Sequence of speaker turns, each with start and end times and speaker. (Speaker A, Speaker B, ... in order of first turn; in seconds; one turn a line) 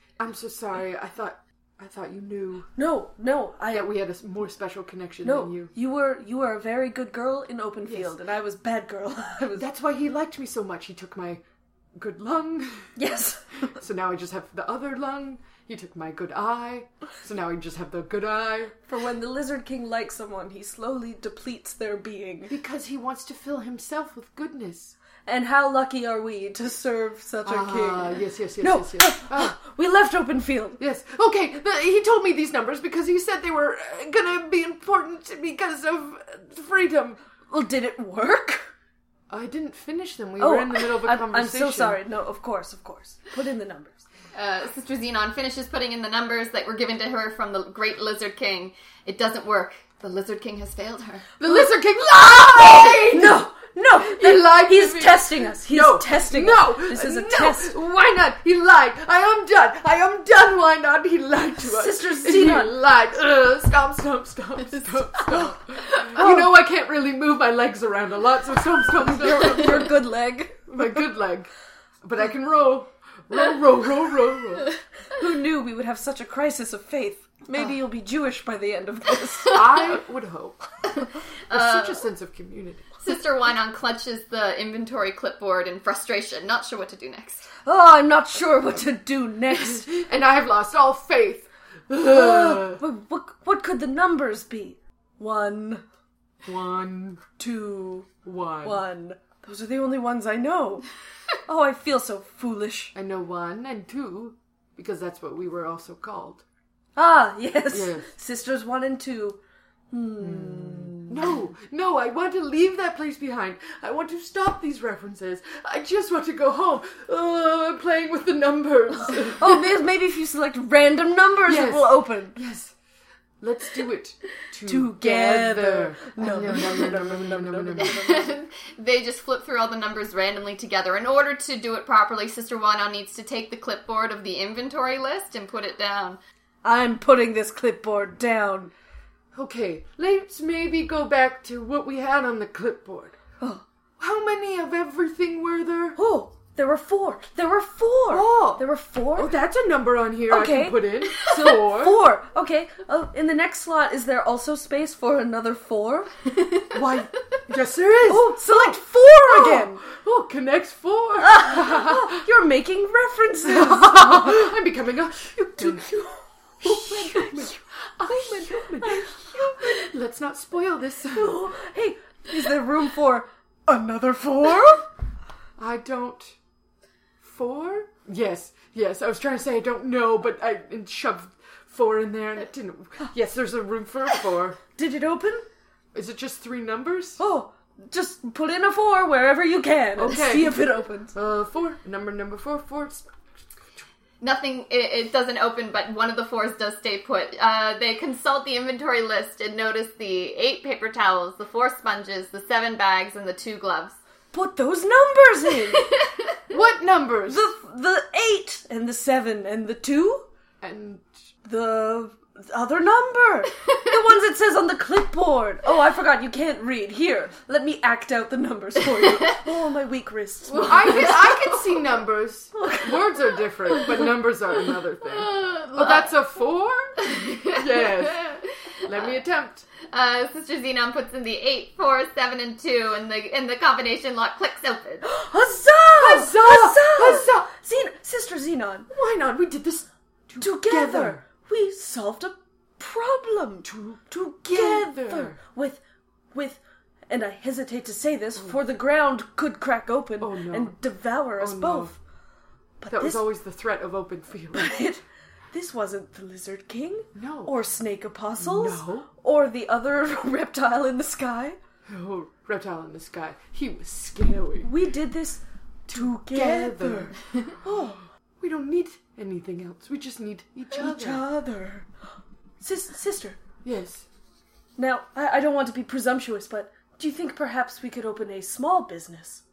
Speaker A: 0.2-2.7
Speaker B: 2.8-3.9
Speaker A: 3.7-5.7
Speaker B: 5.2-9.7
Speaker A: 7.8-8.1
Speaker A: 9.5-11.4
Speaker A: 12.0-12.9
Speaker B: 12.9-13.8
Speaker A: 13.8-18.8
Speaker B: 18.9-22.5
Speaker A: 22.5-24.9
Speaker B: 25.2-30.8
Speaker A: 27.4-29.6
Speaker A: 30.8-37.2
Speaker B: 37.5-38.7
Speaker A: 39.3-42.0
Speaker B: 40.4-44.0
Speaker C: 44.3-51.3
Speaker A: 51.4-70.0
Speaker B: 53.1-57.7
Speaker B: 61.6-62.8
Speaker B: 66.1-66.5
Speaker B: 69.0-70.9
Speaker A: 70.7-71.5
Speaker A: 72.0-74.7
Speaker B: 75.1-79.9
Speaker A: 79.5-80.6
Speaker C: 81.5-82.0
Speaker A: 81.5-82.9
Speaker C: 83.0-87.5
Speaker B: 87.6-89.9
Speaker A: 89.5-92.8
Speaker B: 92.0-95.8
Speaker A: 96.4-97.2
Speaker B: 97.4-98.1
Speaker A: 98.2-98.8
Speaker B: 98.6-100.8
Speaker B: 101.5-102.9
Speaker A: 102.9-106.4
Speaker B: 107.0-109.4
Speaker A: 107.7-108.1
Speaker B: 109.9-111.2
Speaker A: 110.2-119.7
Speaker B: 119.3-122.4
Speaker A: 121.5-122.7
Speaker A: 123.4-128.0
Speaker B: 124.7-128.3
Speaker C: 127.8-136.2
Speaker B: 136.6-138.7
Speaker A: 139.3-143.2
Speaker A: 144.0-146.0
Speaker B: 145.9-149.3
Speaker A: 148.1-152.0
Speaker B: 150.3-156.1
Speaker A: 156.7-162.2
Speaker B: 158.1-159.8
Speaker B: 161.2-164.5
Speaker A: 163.4-165.9
Speaker B: 165.6-169.9
Speaker A: 166.6-171.4
Speaker B: 171.1-174.9
Speaker A: 175.6-176.3
Speaker A: 177.2-184.6
Speaker B: 184.8-185.4
Speaker A: 185.9-187.2
Speaker B: 187.2-191.1
Speaker A: 190.0-193.1
Speaker C: 194.2-203.9
Speaker B: 204.3-205.9
Speaker C: 205.8-206.1
Speaker A: 206.5-207.5
Speaker B: 207.3-210.2
Speaker A: 210.6-211.0
Speaker B: 211.4-221.2
Speaker C: 220.5-221.8
Speaker A: 220.6-229.7
Speaker B: 222.6-223.0
Speaker C: 225.1-226.1
Speaker C: 227.0-228.5
Speaker C: 229.9-235.0
Speaker B: 235.0-238.9
Speaker A: 236.0-237.5
Speaker A: 238.9-241.2
Speaker B: 240.4-245.8
Speaker A: 243.6-245.4
Speaker B: 246.3-251.9
Speaker A: 250.2-250.8
Speaker A: 251.4-251.9
Speaker B: 252.8-253.2
Speaker A: 252.9-254.8
Speaker B: 254.5-261.6
Speaker A: 257.1-257.5
Speaker A: 258.4-259.1
Speaker A: 261.9-264.7
Speaker B: 264.6-268.0
Speaker A: 265.9-267.2
Speaker A: 268.4-271.2
Speaker B: 270.7-271.9
Speaker B: 272.6-273.4
Speaker A: 273.6-274.1
Speaker B: 274.8-279.4